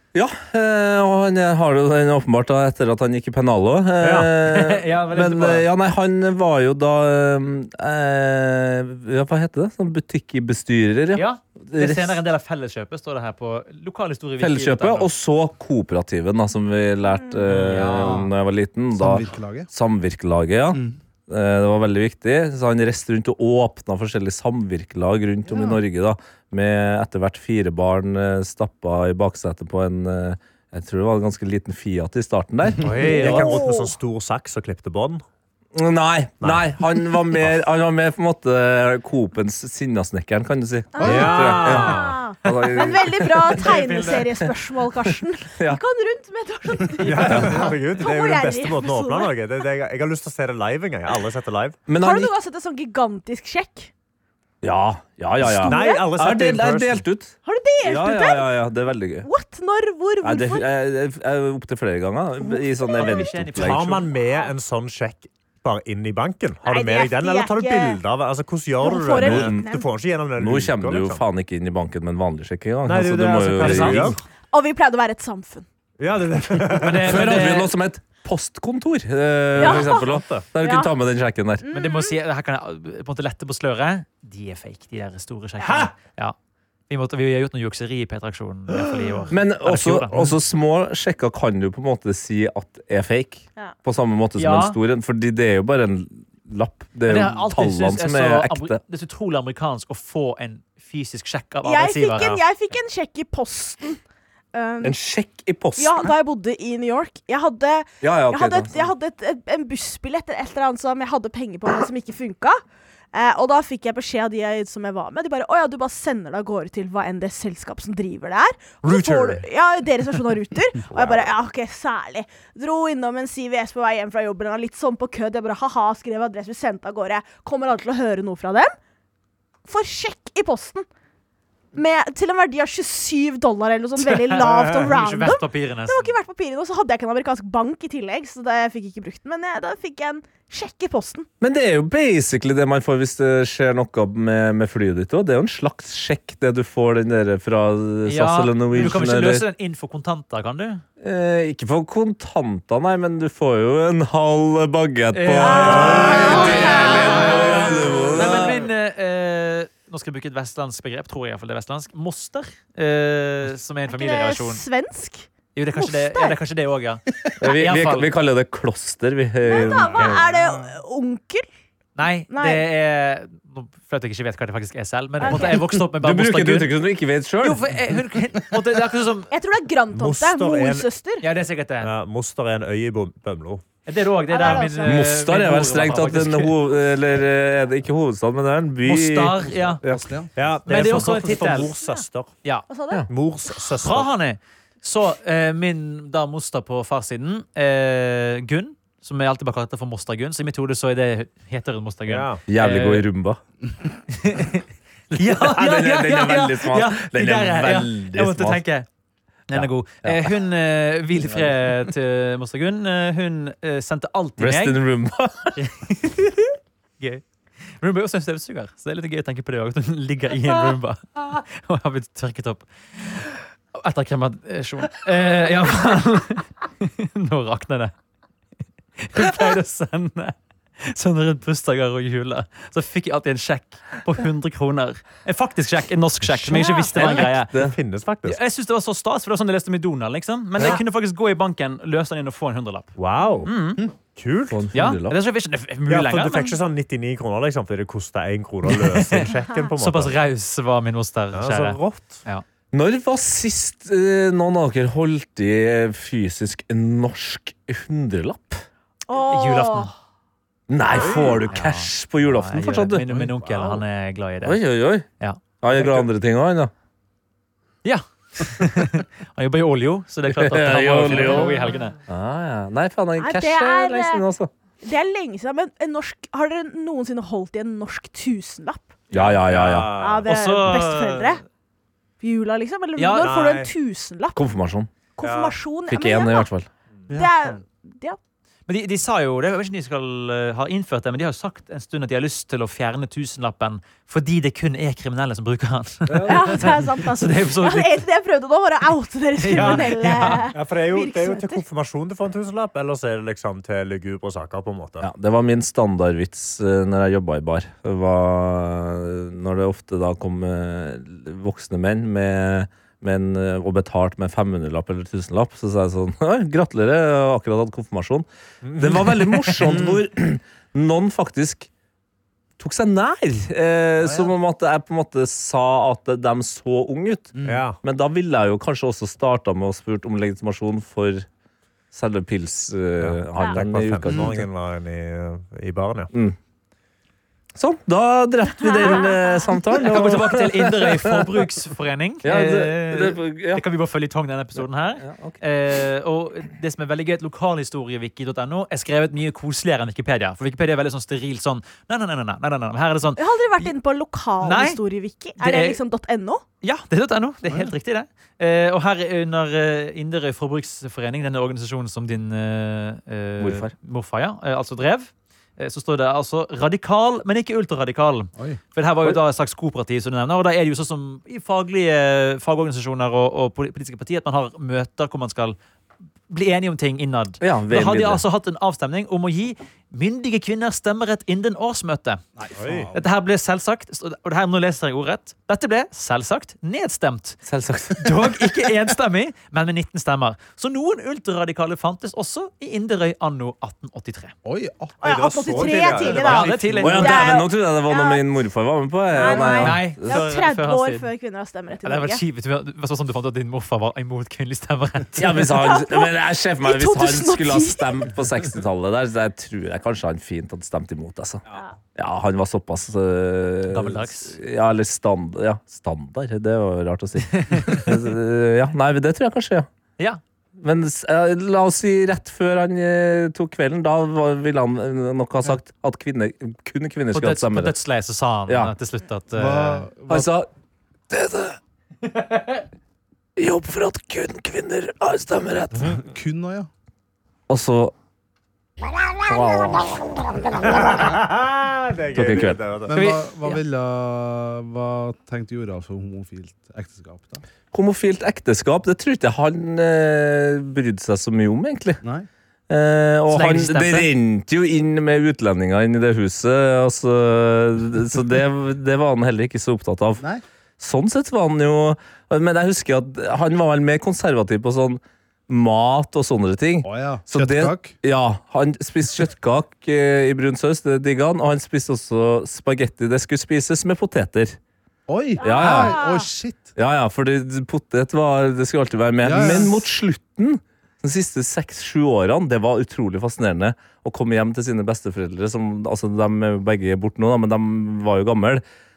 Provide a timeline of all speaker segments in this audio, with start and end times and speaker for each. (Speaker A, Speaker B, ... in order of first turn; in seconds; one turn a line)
Speaker A: 0.1-12.2
Speaker B: 4.0-4.3
Speaker C: 4.4-5.7
Speaker C: 11.1-15.1
Speaker A: 14.4-33.4
Speaker C: 17.5-18.2
Speaker D: 17.8-18.3
Speaker D: 18.9-19.7
Speaker D: 20.7-21.0
Speaker D: 25.5-25.8
Speaker C: 32.8-33.4
Speaker B: 32.9-35.2
Speaker E: 33.1-33.9
Speaker A: 35.7-44.5
Speaker B: 36.4-36.7
Speaker E: 40.9-49.4
Speaker B: 41.0-42.2
Speaker A: 45.1-45.8
Speaker B: 47.0-51.8
Speaker A: 47.3-47.7
Speaker D: 47.4-47.7
Speaker A: 51.9-52.3
Speaker E: 52.0-53.9
Speaker A: 54.6-59.3
Speaker E: 55.5-56.0
Speaker B: 55.6-57.0
Speaker E: 57.4-58.5
Speaker E: 59.2-60.6
Speaker A: 60.2-64.0
Speaker E: 62.4-63.3
Speaker C: 63.0-64.1
Speaker B: 63.5-71.2
Speaker E: 66.6-68.0
Speaker E: 68.8-69.9
Speaker A: 69.1-69.7
Speaker A: 70.3-74.2
Speaker B: 72.8-74.2
Speaker C: 73.6-74.2
Speaker E: 74.5-75.7
Speaker B: 76.0-77.2
Speaker C: 76.8-77.7
Speaker A: 77.0-81.6
Speaker E: 79.6-80.9
Speaker B: 79.6-80.5
Speaker E: 81.6-82.1
Speaker C: 81.7-86.3
Speaker B: 85.6-85.9
Speaker C: 86.9-90.3
Speaker A: 89.3-98.8
Speaker C: 94.4-94.8
Speaker C: 97.1-102.4
Speaker E: 101.6-104.0
Speaker E: 104.5-105.0
Speaker A: 104.8-106.1
Speaker E: 105.8-112.6
Speaker A: 108.0-108.8
Speaker E: 113.1-128.7
Speaker B: 118.8-119.5
Speaker B: 120.8-121.3
Speaker E: 129.7-130.8
Speaker E: 131.7-141.3
Speaker C: 134.1-136.1
Speaker A: 141.4-149.4
Speaker C: 148.0-150.8
Speaker A: 151.0-158.6
Speaker C: 155.1-157.3
Speaker E: 155.4-157.4
Speaker B: 155.9-156.5
Speaker C: 158.1-164.6
Speaker E: 163.9-166.4
Speaker C: 165.5-168.1
Speaker A: 167.4-170.2
Speaker E: 169.4-171.4
Speaker D: 170.0-170.7
Speaker C: 171.9-176.7
Speaker E: 172.3-172.6
Speaker E: 175.2-175.6
Speaker A: 175.9-177.6
Speaker C: 177.4-179.3
Speaker E: 179.3-181.2
Speaker B: 179.9-180.9
Speaker C: 181.2-181.9
Speaker B: 181.8-183.6
Speaker C: 183.8-186.6
Speaker E: 184.3-185.1
Speaker A: 184.8-189.5
Speaker C: 188.8-189.8
Speaker B: 189.8-192.4
Speaker D: 189.8-190.3
Speaker C: 190.7-191.7
Speaker E: 192.7-193.0
Speaker B: 193.1-194.1
Speaker C: 193.8-203.1
Speaker B: 202.1-202.4
Speaker A: 202.5-203.4
Speaker C: 204.1-208.9
Speaker A: 205.2-208.6
Speaker C: 209.5-214.8
Speaker A: 209.5-210.3
Speaker A: 214.4-215.6
Speaker C: 215.6-217.2
Speaker C: 217.8-227.9
Speaker C: 229.0-237.5
Speaker A: 236.3-237.8
Speaker E: 236.6-236.9
Speaker B: 237.5-238.4
Speaker C: 238.2-243.8
Speaker B: 243.0-243.5
Speaker B: 244.1-244.7
Speaker A: 244.5-245.2
Speaker C: 244.7-246.6
Speaker B: 245.9-250.2
Speaker C: 248.7-252.4
Speaker B: 251.3-252.2
Speaker A: 252.7-258.6
Speaker E: 259.1-259.9
Speaker C: 259.1-259.9
Speaker A: 260.7-263.1
Speaker B: 260.9-261.4
Speaker C: 261.4-264.6
Speaker B: 263.1-263.8
Speaker A: 264.4-265.1
Speaker A: 265.6-266.7
Speaker C: 267.8-272.0
Speaker A: 270.3-274.5
Speaker E: 273.2-274.2
Speaker E: 274.8-278.9
Speaker A: 279.1-279.9
Speaker B: 279.1-280.3
Speaker E: 279.9-281.4
Speaker C: 280.2-281.4
Speaker E: 282.2-284.5
Speaker C: 282.9-283.3
Speaker B: 283.2-283.7
Speaker A: 284.4-284.9
Speaker E: 285.2-286.5
Speaker B: 285.2-285.6
Speaker A: 285.9-286.7
Speaker E: 287.1-288.2
Speaker C: 288.7-298.0
Speaker E: 296.2-301.6
Speaker C: 299.4-300.5
Speaker B: 299.5-305.1
Speaker A: 305.0-321.7
Speaker B: 318.6-319.9
Speaker A: 322.6-331.3
Speaker D: 327.4-327.6
Speaker B: 327.4-327.8
Speaker A: 331.9-334.5
Speaker B: 333.0-336.1
Speaker A: 336.1-336.4
Speaker A: 337.6-341.4
Speaker C: 339.7-353.7
Speaker A: 342.2-343.6
Speaker A: 344.6-345.4
Speaker E: 353.2-356.4
Speaker C: 354.4-354.8
Speaker C: 355.4-355.8
Speaker C: 356.6-375.6
Speaker A: 363.4-363.7
Speaker C: 376.3-382.2
Speaker A: 377.4-378.2
Speaker D: 382.4-383.1
Speaker B: 382.6-382.9
Speaker C: 382.9-387.4
Speaker A: 387.4-388.6
Speaker C: 388.0-394.3
Speaker D: 394.4-396.1
Speaker E: 395.0-398.2
Speaker B: 395.0-397.2
Speaker C: 396.2-397.2
Speaker A: 396.8-400.2
Speaker E: 399.1-402.2
Speaker C: 399.2-401.1
Speaker C: 401.8-405.4
Speaker A: 405.2-411.4
Speaker E: 405.5-408.1
Speaker A: 411.9-419.7
Speaker C: 413.7-414.4
Speaker C: 417.3-417.9
Speaker A: 420.6-427.7
Speaker C: 427.1-429.9
Speaker A: 428.5-428.7
Speaker D: 429.3-430.3
Speaker A: 430.1-430.5
Speaker A: 431.1-431.6
Speaker C: 432.1-432.6
Speaker A: 433.4-436.0
Speaker D: 435.9-436.7
Speaker A: 437.5-437.9
Speaker A: 439.2-440.9
Speaker B: 440.6-442.9
Speaker A: 442.1-442.6
Speaker D: 442.9-447.4
Speaker C: 442.9-443.6
Speaker A: 447.7-452.0
Speaker D: 452.0-452.3
Speaker A: 452.7-460.2
Speaker C: 453.3-454.1
Speaker A: 460.8-474.6
Speaker D: 466.8-467.9
Speaker D: 475.1-476.6
Speaker E: 475.4-476.3
Speaker A: 475.4-476.0
Speaker A: 476.8-488.6
Speaker D: 479.2-479.8